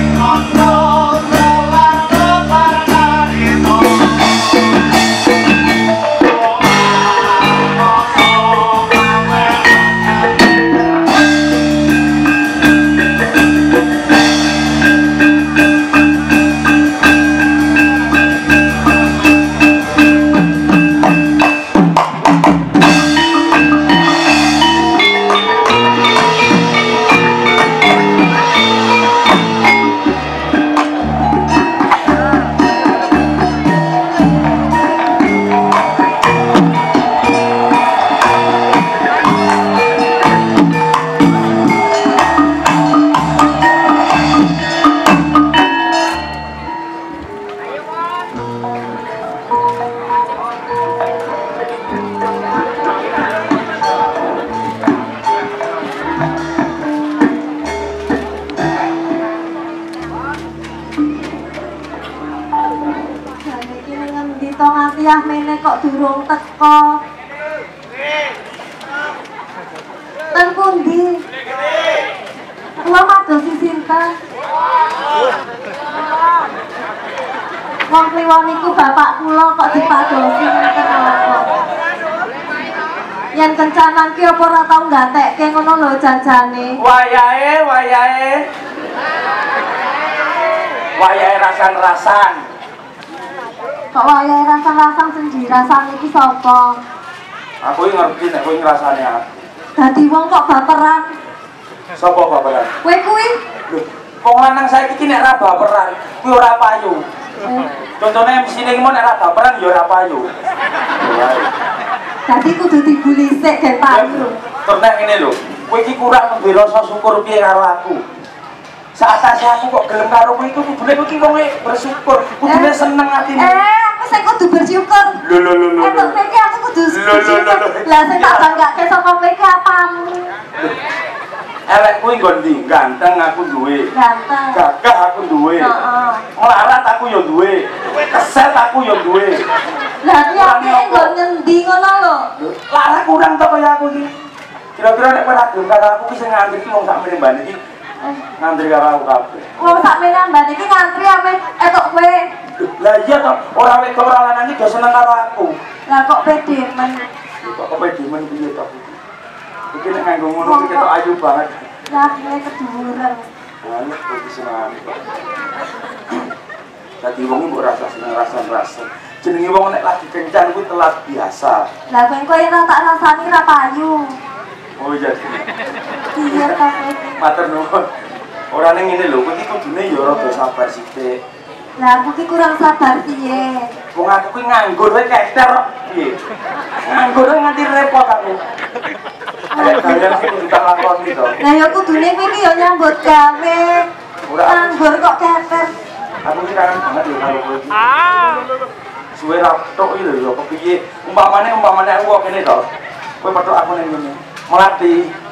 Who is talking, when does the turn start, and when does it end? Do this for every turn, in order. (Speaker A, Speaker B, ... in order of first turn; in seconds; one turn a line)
Speaker A: 1.0-1.3
Speaker B: 63.4-67.0
Speaker B: 70.3-71.2
Speaker B: 72.8-74.2
Speaker B: 77.9-81.5
Speaker B: 83.3-86.8
Speaker A: 86.8-88.5
Speaker A: 91.0-92.4
Speaker B: 93.9-96.8
Speaker A: 97.6-99.2
Speaker B: 99.8-101.1
Speaker A: 102.0-102.7
Speaker B: 102.8-103.3
Speaker A: 103.7-107.0
Speaker A: 108.0-110.3
Speaker A: 111.0-111.5
Speaker B: 112.3-114.3
Speaker A: 113.9-118.0
Speaker A: 118.9-123.6
Speaker B: 122.5-122.7
Speaker B: 123.4-125.2
Speaker A: 125.2-126.2
Speaker B: 125.8-130.3
Speaker A: 126.9-128.6
Speaker A: 131.7-133.9
Speaker B: 133.9-134.6
Speaker A: 134.5-135.7
Speaker B: 135.6-136.2
Speaker A: 136.3-139.4
Speaker B: 140.0-142.2
Speaker A: 140.3-141.1
Speaker A: 142.4-144.1
Speaker A: 144.8-147.6
Speaker A: 148.4-149.5
Speaker B: 149.6-152.3
Speaker A: 152.6-155.5
Speaker B: 155.9-157.1
Speaker A: 157.4-159.0
Speaker A: 159.7-161.7
Speaker B: 160.4-160.9
Speaker B: 161.9-163.3
Speaker A: 163.6-165.0
Speaker A: 167.0-171.7
Speaker B: 171.9-174.2
Speaker A: 174.8-175.4
Speaker B: 176.1-177.2
Speaker A: 176.2-176.5
Speaker A: 177.2-177.9
Speaker A: 178.5-181.2
Speaker B: 181.8-183.7
Speaker A: 183.9-186.2
Speaker A: 186.8-188.4
Speaker B: 189.5-190.0
Speaker A: 189.6-191.4
Speaker B: 191.4-193.9
Speaker A: 194.3-195.0
Speaker B: 194.4-195.7
Speaker A: 196.2-197.7
Speaker A: 199.1-202.6
Speaker A: 203.2-205.1